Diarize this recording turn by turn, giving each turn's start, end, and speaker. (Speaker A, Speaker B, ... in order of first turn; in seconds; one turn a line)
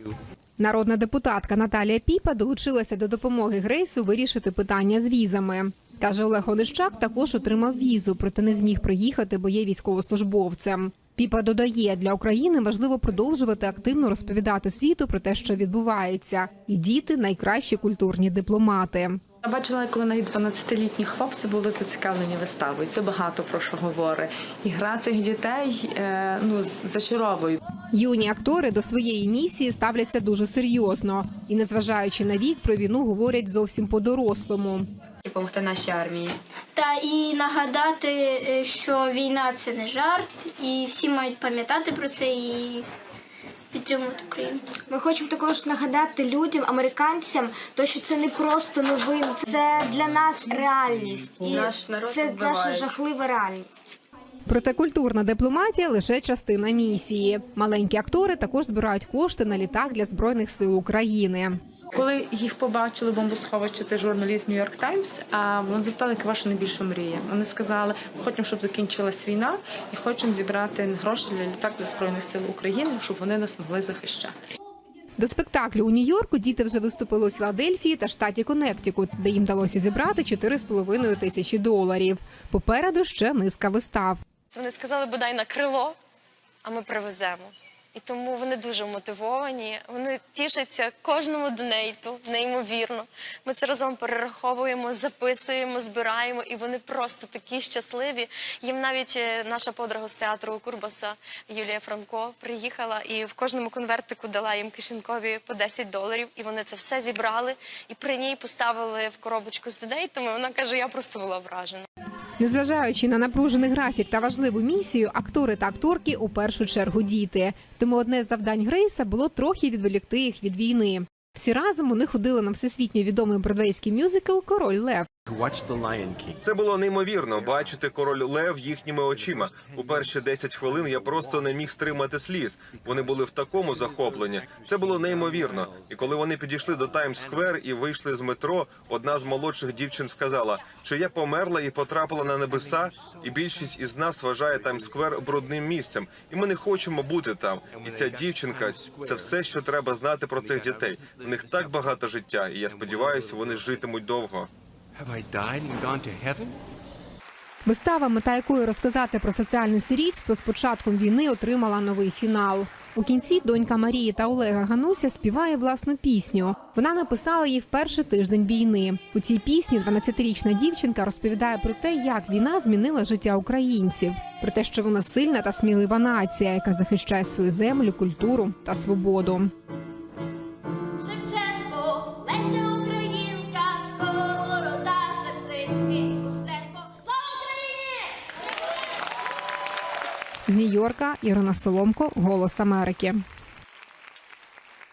Speaker A: 0.6-19.2
Speaker B: 19.4-27.6
Speaker A: 27.9-34.9
Speaker C: 35.2-36.4
Speaker D: 36.7-42.9
Speaker D: 43.7-44.6
Speaker E: 44.9-54.0
Speaker D: 51.4-51.7
Speaker C: 51.4-52.9
Speaker A: 54.5-61.6
Speaker B: 61.9-74.3
Speaker A: 75.2-84.2
Speaker F: 84.5-86.0
Speaker F: 86.6-111.9
Speaker A: 112.4-125.1
Speaker G: 125.2-126.4
Speaker H: 126.4-154.5
Speaker G: 147.8-149.3
Speaker G: 154.9-156.6
Speaker A: 157.6-179.5
Speaker A: 190.5-193.2